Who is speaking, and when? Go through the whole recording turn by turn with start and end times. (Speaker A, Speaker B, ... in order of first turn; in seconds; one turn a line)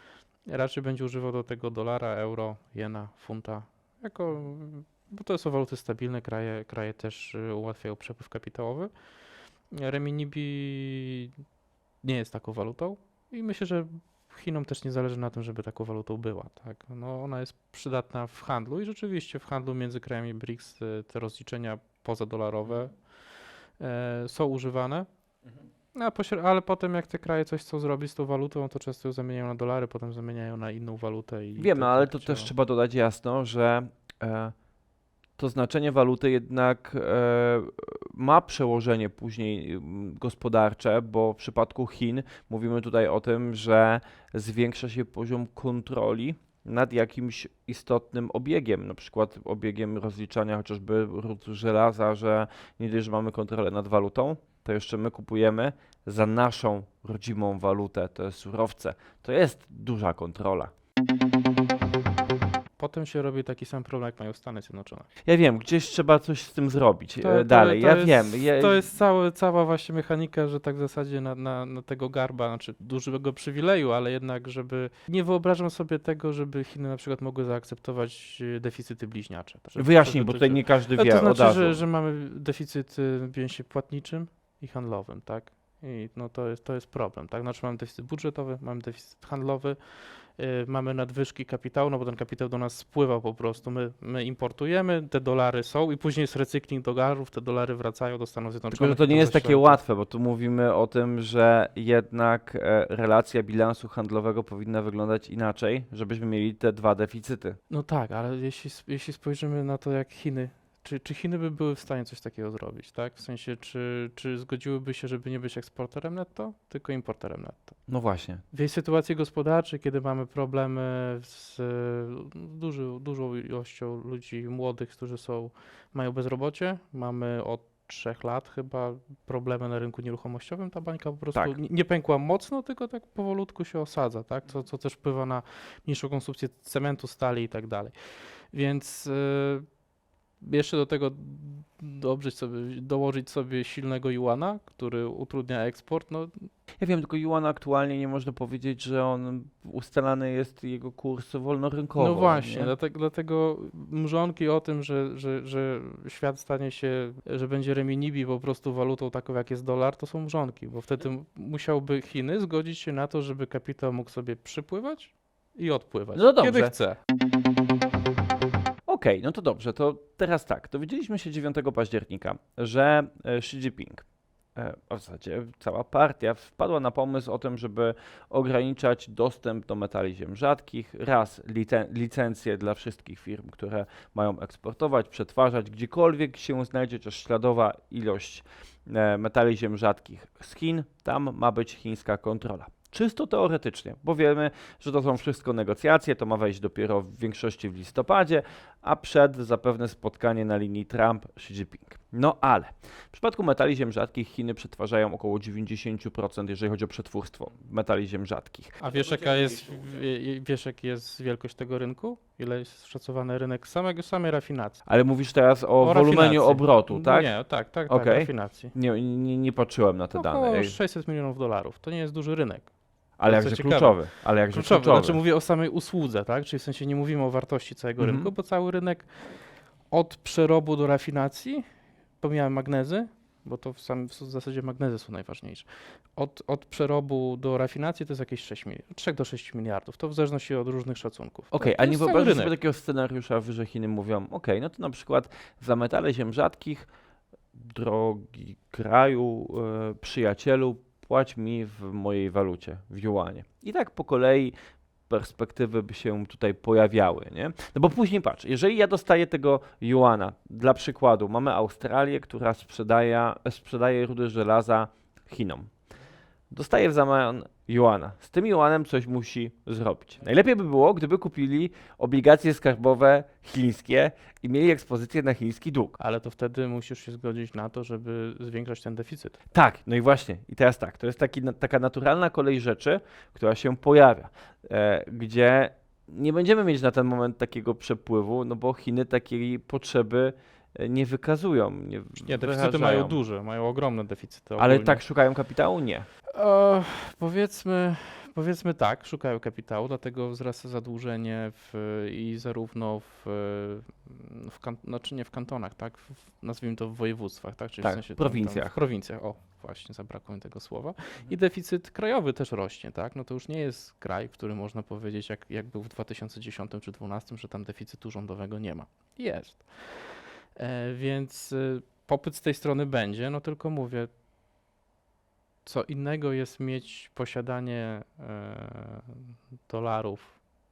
Speaker A: 0.4-8.9
Speaker A: 9.7-11.3
Speaker A: 12.0-25.1
Speaker A: 25.9-32.5
Speaker B: 31.6-34.5
Speaker B: 35.4-60.7
Speaker A: 62.8-65.1
Speaker B: 65.2-68.9
Speaker A: 67.2-99.8
Speaker B: 79.8-81.8
Speaker B: 98.7-107.6
Speaker A: 107.7-117.8
Speaker B: 117.9-118.4
Speaker A: 118.5-139.7
Speaker A: 140.4-146.5
Speaker B: 146.8-152.7
Speaker A: 152.0-167.0
Speaker B: 166.1-166.7
Speaker B: 168.9-208.8
Speaker A: 208.8-214.8
Speaker B: 214.8-217.3
Speaker A: 215.8-218.7
Speaker B: 217.9-220.8
Speaker A: 220.1-231.6
Speaker B: 223.2-225.2
Speaker B: 228.0-228.3
Speaker A: 232.2-242.5
Speaker B: 241.5-246.9
Speaker B: 247.5-254.5
Speaker B: 255.1-265.7
Speaker B: 266.5-276.0
Speaker A: 276.0-279.4
Speaker B: 279.5-293.2
Speaker A: 292.2-295.0
Speaker B: 294.6-296.1
Speaker A: 296.3-324.1
Speaker B: 307.8-308.8
Speaker A: 325.6-330.4